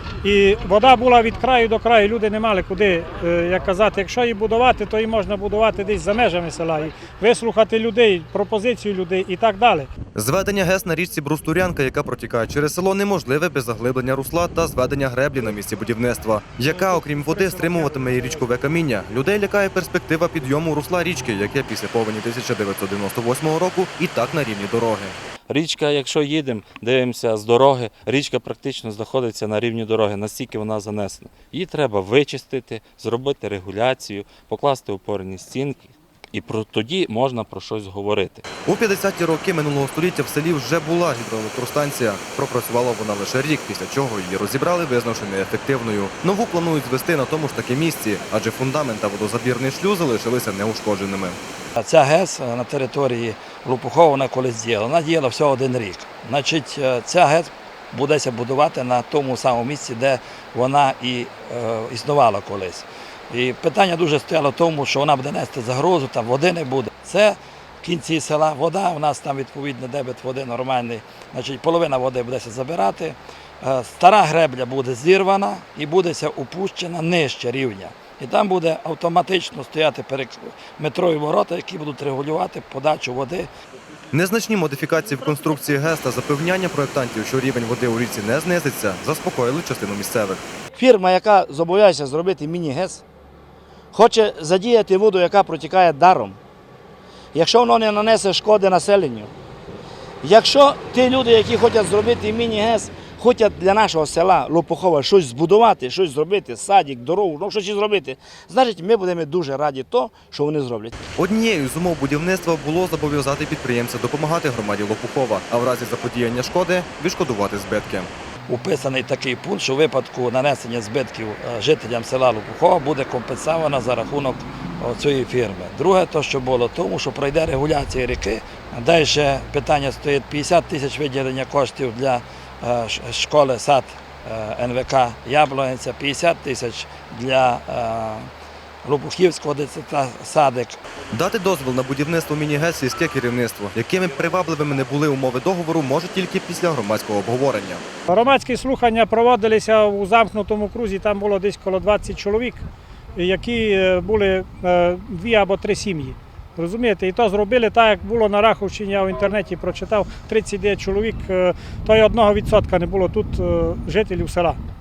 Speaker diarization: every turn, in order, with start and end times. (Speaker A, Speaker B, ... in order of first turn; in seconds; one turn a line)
Speaker A: 0.2-9.9
Speaker B: 10.2-25.2
Speaker A: 16.7-18.4
Speaker C: 25.5-38.5
Speaker B: 38.6-51.4
Speaker D: 51.8-83.5
Speaker B: 84.1-90.4
Speaker E: 90.8-93.0
Speaker E: 93.9-96.4
Speaker E: 97.3-99.3
Speaker E: 100.2-111.0
Speaker B: 111.2-118.1
Speaker D: 118.5-138.3
Speaker D: 138.8-140.8
Speaker B: 141.1-147.8
Speaker A: 148.1-152.6
Speaker A: 153.2-164.6